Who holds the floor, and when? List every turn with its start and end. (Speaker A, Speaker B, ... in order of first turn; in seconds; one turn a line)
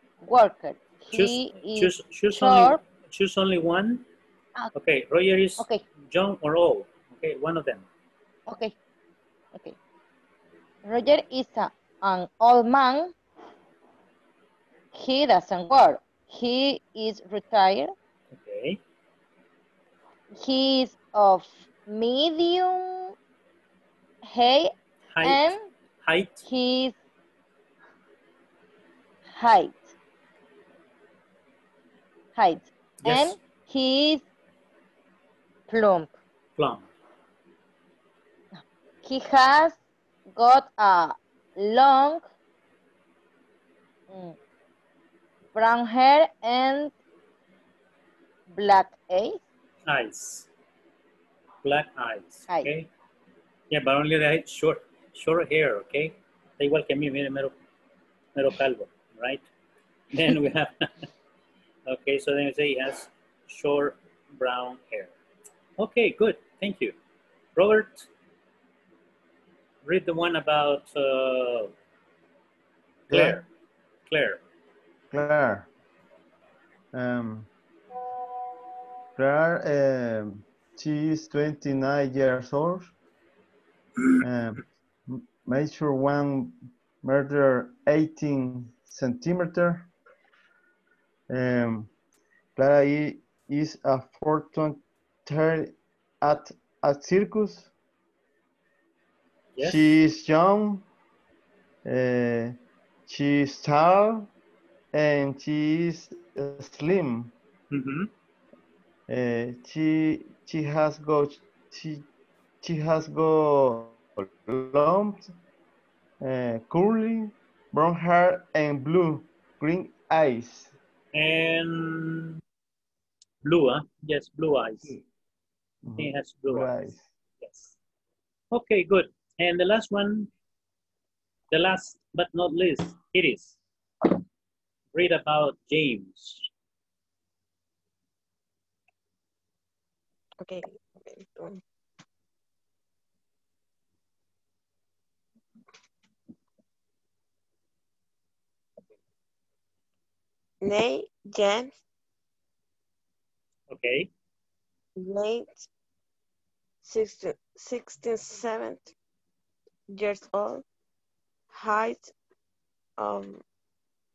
Speaker A: 0.2-2.8
Speaker B: 1.1-4.0
Speaker B: 4.7-7.9
Speaker A: 8.5-8.8
Speaker A: 10.8-13.1
Speaker A: 14.9-17.9
Speaker B: 18.3-18.8
Speaker A: 20.4-23.1
Speaker A: 24.2-24.7
Speaker B: 25.1-25.4
Speaker A: 25.2-25.6
Speaker B: 26.0-26.4
Speaker A: 26.4-26.9
Speaker A: 29.3-29.9
Speaker A: 32.4-34.2
Speaker B: 33.0-33.4
Speaker A: 35.7-36.1
Speaker B: 36.6-36.9
Speaker A: 38.5-39.8
Speaker A: 40.4-42.3
Speaker A: 44.1-44.4
Speaker A: 45.5-46.9
Speaker A: 48.5-49.4
Speaker B: 49.9-50.5
Speaker B: 51.6-52.9
Speaker B: 53.7-57.5
Speaker B: 58.4-59.4
Speaker B: 60.1-61.1
Speaker B: 61.9-65.1
Speaker B: 65.8-67.0
Speaker B: 67.6-68.1
Speaker B: 69.8-71.7
Speaker C: 73.1-73.4
Speaker B: 73.1-73.5
Speaker B: 74.1-74.4
Speaker C: 75.1-75.7
Speaker C: 76.9-77.5
Speaker C: 79.2-82.9
Speaker C: 84.2-89.9
Speaker C: 91.3-91.9
Speaker C: 92.6-97.7
Speaker B: 99.6-100.0
Speaker C: 99.6-100.9
Speaker C: 101.9-102.6
Speaker C: 103.1-104.3
Speaker C: 104.9-107.3
Speaker B: 107.7-108.1
Speaker C: 109.1-112.1
Speaker C: 112.6-115.3
Speaker C: 116.2-120.7
Speaker B: 121.1-122.4
Speaker B: 123.4-125.0
Speaker C: 125.8-127.0
Speaker B: 126.0-126.7
Speaker B: 127.4-127.8
Speaker B: 128.5-130.3
Speaker B: 131.5-133.6
Speaker B: 134.9-136.5
Speaker D: 140.4-141.6
Speaker D: 150.6-151.7
Speaker B: 153.7-154.1
Speaker D: 155.0-155.7
Speaker D: 156.8-158.9
Speaker D: 159.9-160.6
Speaker D: 161.5-162.1
Speaker D: 163.0-163.4